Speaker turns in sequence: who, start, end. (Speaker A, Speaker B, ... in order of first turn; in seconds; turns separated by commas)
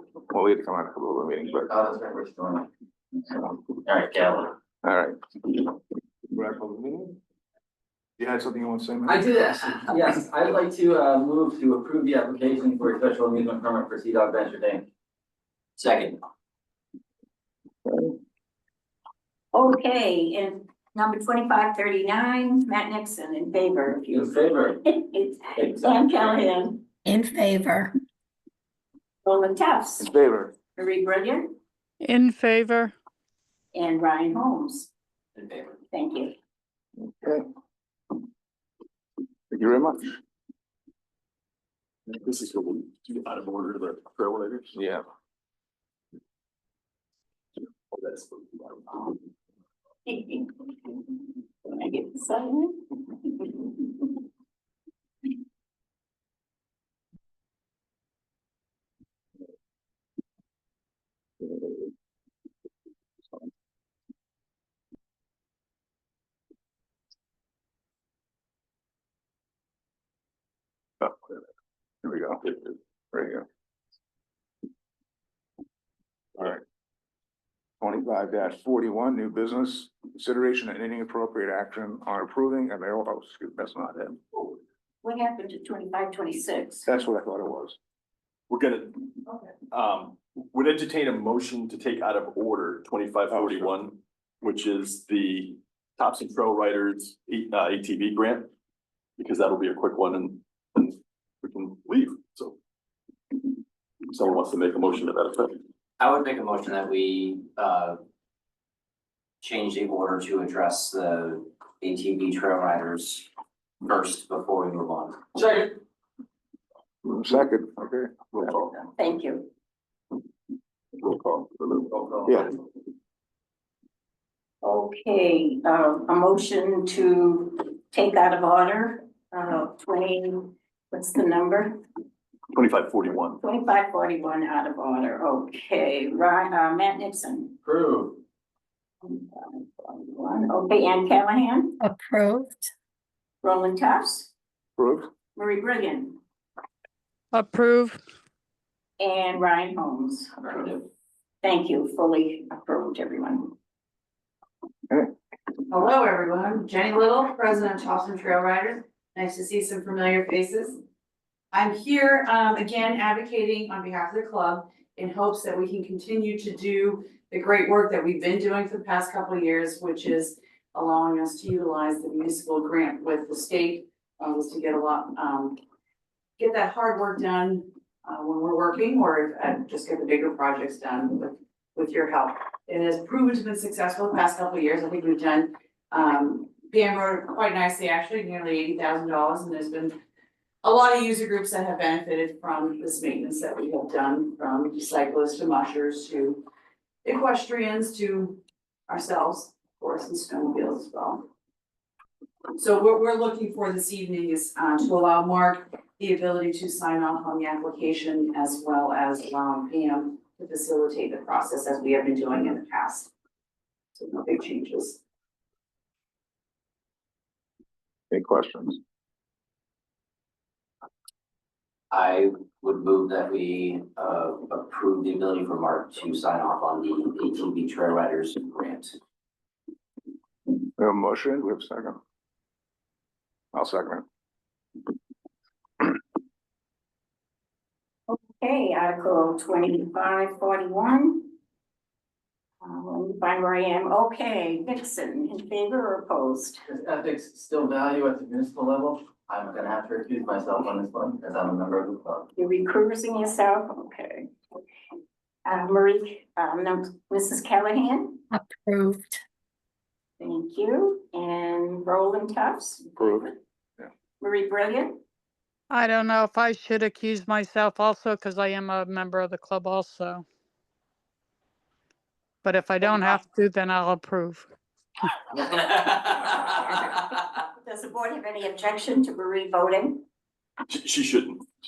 Speaker A: 0.3-1.7, Speaker B: 1.6-2.7, Speaker B: 3.9-4.5, Speaker A: 4.8-5.2, Speaker A: 6.3-7.2, Speaker A: 8.2-9.2, Speaker B: 9.1-14.9, Speaker C: 15.8-16.2, Speaker A: 17.9-18.1, Speaker D: 19.5-26.8, Speaker B: 24.1-24.8, Speaker B: 25.5-26.5, Speaker E: 27.0-27.9, Speaker D: 29.2-30.1, Speaker A: 30.0-30.5, Speaker D: 30.8-31.5, Speaker F: 32.0-32.9, Speaker D: 33.7-34.9, Speaker C: 35.4-35.8, Speaker D: 35.9-36.3, Speaker A: 37.0-37.4, Speaker A: 39.5-40.2, Speaker G: 42.1-44.7, Speaker A: 44.7-45.0, Speaker G: 47.9-48.8, Speaker D: 50.0-51.0, Speaker D: 51.6-54.0, Speaker A: 71.0-71.4, Speaker A: 72.0-73.5, Speaker A: 76.4-76.6, Speaker A: 77.8-84.2, Speaker D: 85.0-86.9, Speaker A: 86.9-87.8, Speaker G: 88.5-89.1, Speaker G: 89.7-98.5, Speaker A: 93.3-93.7, Speaker G: 99.2-102.6, Speaker G: 104.1-105.6, Speaker C: 106.0-108.0, Speaker C: 109.4-113.3, Speaker C: 113.8-115.2, Speaker B: 115.3-115.8, Speaker A: 117.0-118.7, Speaker D: 118.8-119.5, Speaker A: 121.0-122.6, Speaker B: 121.9-122.5, Speaker D: 124.6-131.8, Speaker G: 132.5-133.4, Speaker D: 133.4-137.5, Speaker B: 137.6-138.2, Speaker D: 139.0-141.8, Speaker E: 141.8-142.7, Speaker D: 143.4-144.3, Speaker A: 144.8-145.1, Speaker D: 145.3-146.2, Speaker F: 147.3-148.0, Speaker D: 149.0-150.5, Speaker C: 150.5-150.8, Speaker D: 151.4-153.5, Speaker H: 155.7-160.8, Speaker H: 161.5-175.6, Speaker H: 176.4-189.9, Speaker H: 190.6-196.4, Speaker H: 197.0-201.2, Speaker H: 202.6-213.1, Speaker H: 213.9-215.0, Speaker A: 218.1-218.8, Speaker C: 221.9-228.9, Speaker A: 230.8-232.0, Speaker A: 233.5-234.0, Speaker D: 238.1-241.3, Speaker D: 242.6-246.6, Speaker B: 246.7-252.3, Speaker D: 252.4-254.3, Speaker D: 255.4-258.2, Speaker E: 258.3-259.2, Speaker D: 260.2-263.3, Speaker A: 263.0-263.8, Speaker D: 264.2-265.0, Speaker F: 265.7-270.2, Speaker F: 272.4-274.5, Speaker C: 275.4-276.6, Speaker D: 277.6-280.0, Speaker G: 280.7-281.4